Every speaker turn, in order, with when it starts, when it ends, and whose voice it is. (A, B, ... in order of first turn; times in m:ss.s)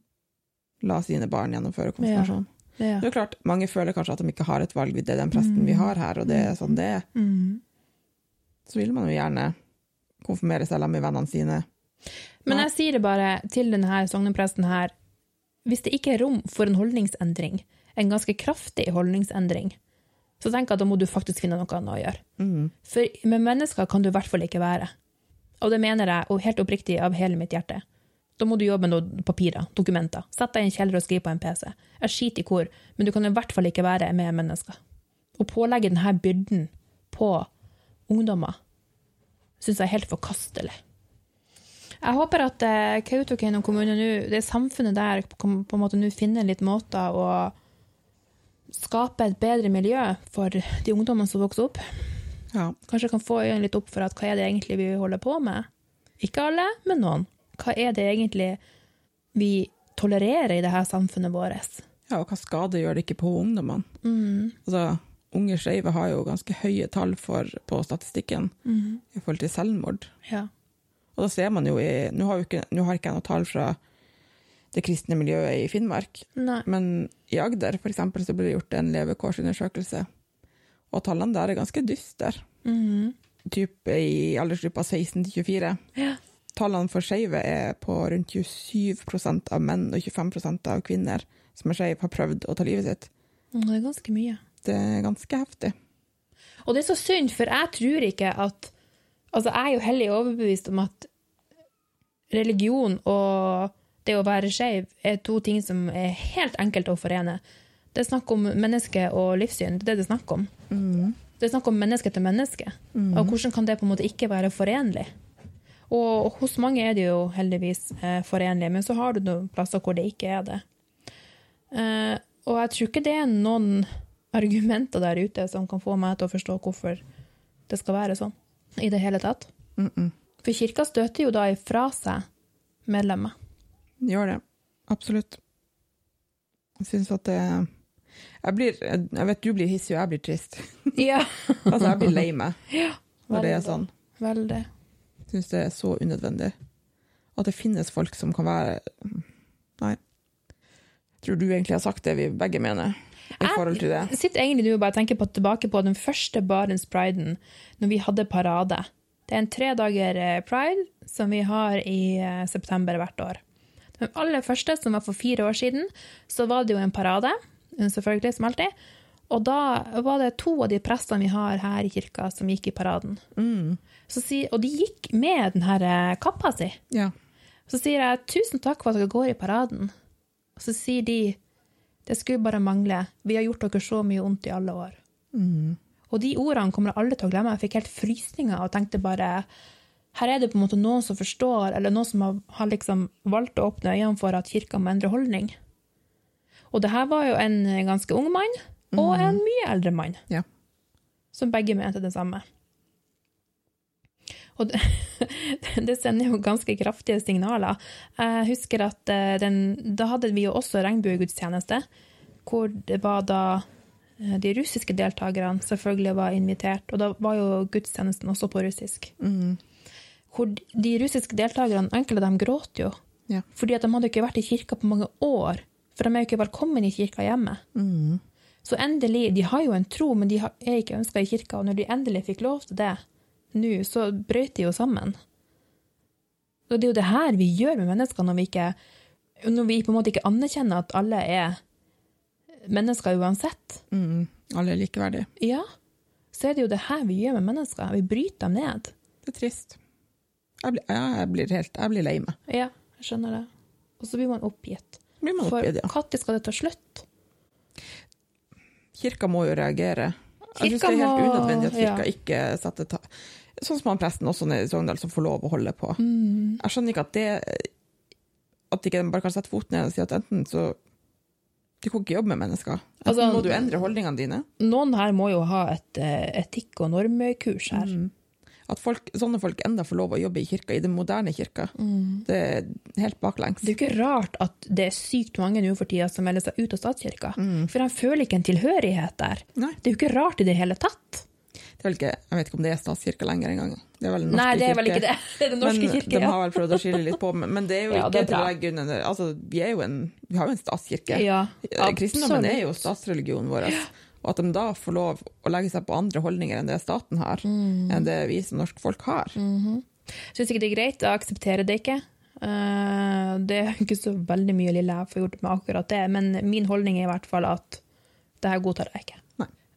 0:00.8-0:02.5 A
0:02.0-0:03.1 B
0:03.0-0:07.0 A
0:05.3-0:07.6 B
0:08.7-0:09.5 A
0:10.2-0:11.6 A
0:12.4-0:14.9 B
0:15.6-0:19.8 B
0:20.4-0:22.2 B
0:22.4-0:22.7 A
0:22.8-0:24.9 B
0:25.6-0:27.8 B
0:28.4-0:34.8 B
0:35.4-0:37.5 B
0:38.1-0:38.6 B
0:39.6-0:40.8 B
0:42.0-0:47.5 B
0:48.7-0:51.8 B
0:52.9-0:55.7 B
0:56.2-0:58.6 B
0:59.4-1:01.8 B
1:02.1-1:03.9 A
1:04.0-1:04.6 B
1:04.6-1:08.5 A
1:08.6-1:09.0 B
1:09.1-1:10.1 A
1:11.2-1:13.8 A
1:14.7-1:20.1 A
1:16.4-1:16.6 B
1:20.9-1:22.4 A
1:22.6-1:23.1 B
1:23.4-1:25.8 A
1:26.5-1:33.1 A
1:33.5-1:34.4 B
1:34.6-1:35.7 A
1:36.6-1:38.7 B
1:39.3-1:41.1 B
1:42.3-1:47.4 B
1:47.9-1:50.5 B
1:50.7-1:51.2 A
1:51.4-1:55.1 B
1:52.9-1:53.4 A
1:55.9-2:00.6 B
2:01.7-2:07.0 B
2:07.7-2:09.5 B
2:09.8-2:10.1 A
2:10.4-2:12.2 B
2:12.9-2:13.3 B
2:14.0-2:15.4 A
2:16.8-2:17.7 A
2:18.4-2:20.9 A
2:20.9-2:22.0 B
2:21.6-2:22.6 A
2:22.7-2:24.7 B
2:23.3-2:23.9 A
2:25.3-2:26.5 A
2:27.4-2:29.3 A
2:31.2-2:34.1 A
2:33.4-2:43.4 B
2:44.0-2:48.7 B
2:49.3-2:53.2 B
2:53.4-2:53.8 A
2:54.1-2:56.8 B
2:57.7-2:59.9 B
3:00.6-3:01.4 B
3:02.0-3:05.0 B
3:05.3-3:05.8 A
3:06.1-3:09.5 B
3:10.1-3:15.5 B
3:16.7-3:20.2 B
3:18.9-3:19.4 A
3:21.3-3:22.4 B
3:24.6-3:31.9 B
3:32.4-3:33.6 B
3:34.2-3:39.1 B
3:39.2-3:39.6 A
3:40.3-3:43.0 B
3:43.5-3:47.6 B
3:47.7-3:48.2 A
3:48.6-3:53.0 B
3:53.5-3:55.2 B
3:56.7-3:58.7 B
3:59.4-4:01.6 B
4:02.6-4:03.8 B
4:03.9-4:05.3 A
4:05.4-4:05.6 B
4:06.3-4:08.9 B
4:09.2-4:09.8 A
4:10.6-4:12.4 A
4:12.5-4:13.5 B
4:14.0-4:17.0 B
4:15.2-4:15.9 A
4:18.9-4:26.0 A
4:20.6-4:22.1 B
4:26.0-4:26.6 B
4:26.6-4:27.7 A
4:28.7-4:30.8 A
4:31.8-4:34.5 A
4:33.0-4:33.8 B
4:34.6-4:37.9 B
4:37.7-4:38.1 A
4:38.7-4:41.7 A
4:41.8-4:42.2 B
4:42.2-4:43.7 A
4:43.6-4:51.2 B
4:47.4-4:47.7 A
4:51.8-4:55.0 A
4:54.3-4:57.1 B
4:55.6-5:09.4 A
4:57.9-4:58.5 B
5:01.1-5:02.8 B
5:07.4-5:08.0 B
5:09.4-5:17.8 B
5:18.4-5:19.2 B